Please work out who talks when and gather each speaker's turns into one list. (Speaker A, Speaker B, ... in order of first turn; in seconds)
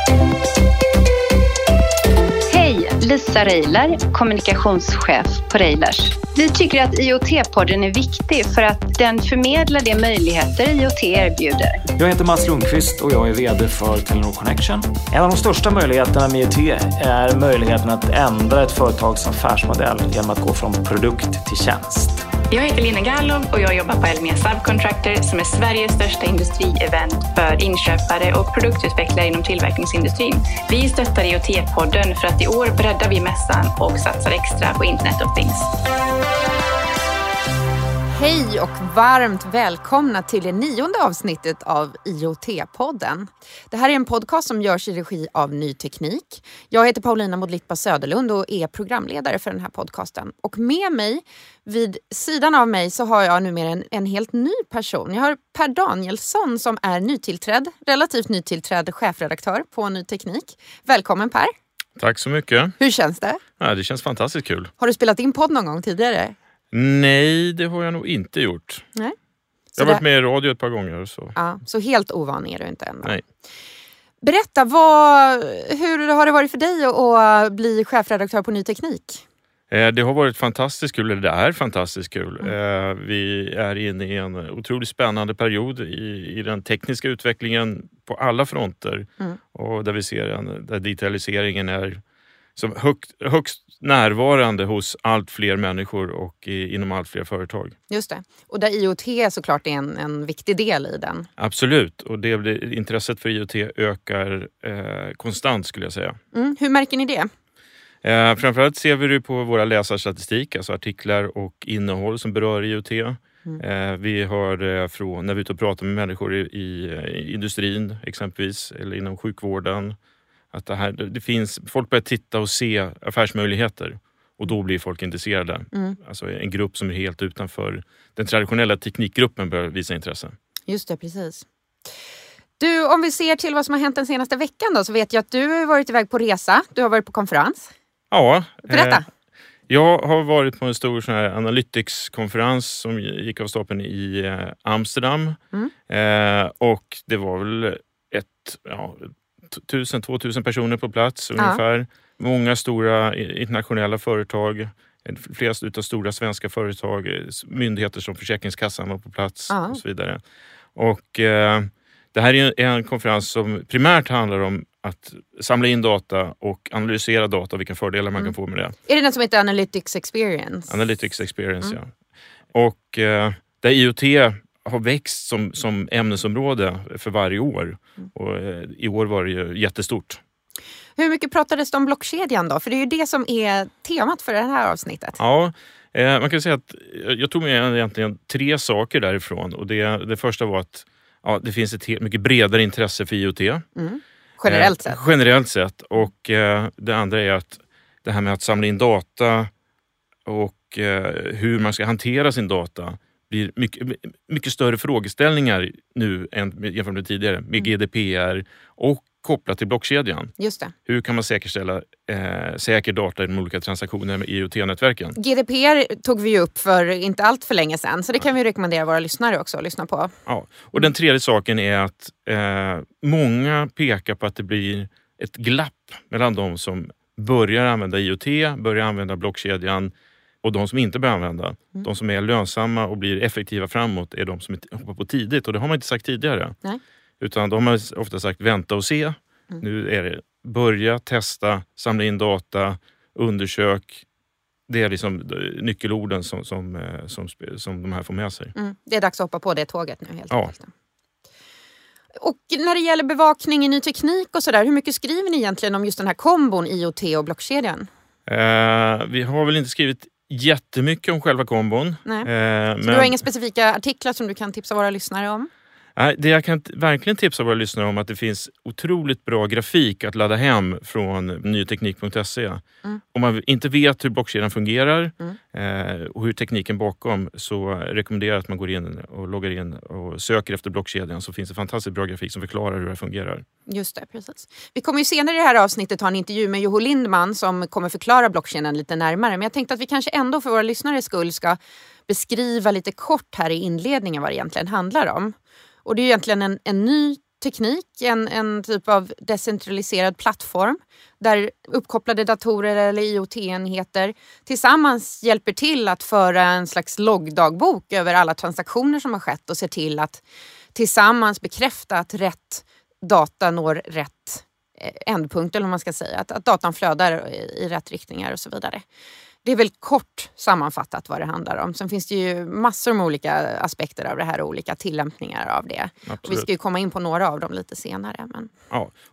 Speaker A: 2.5-11.8
Speaker B: 12.0-22.2
Speaker C: 22.5-35.7
Speaker D: 38.1-61.5, 62.8-63.4, 64.8-66.3, 69.8-70.0, 71.3-73.1, 74.2-79.2, 97.9-101.3, 106.3-107.3, 130.7-131.4, 132.6-137.7, 138.7-139.0, 159.5-159.8, 168.8-170.7, 181.0-185.2, 193.8-195.0, 210.4-210.7, 215.2-220.1, 248.5-250.7, 252.2-257.9, 262.8-265.5, 283.7-310.2, 310.7-318.8, 319.4-328.5
Speaker E: 62.0-62.7, 63.6-64.7, 66.7-68.8, 69.8-71.3, 79.7-92.0, 92.5-97.8, 101.4-106.2, 108.0-120.0, 120.5-130.3, 138.1-139.0, 139.7-160.2, 160.7-168.7, 170.7-171.9, 172.5-180.2, 185.2-193.7, 194.4-199.5, 200.2-210.3, 210.8-215.2, 220.3-236.6, 237.2-244.0, 244.7-248.5, 258.3-263.2, 265.9-283.4, 326.1-326.5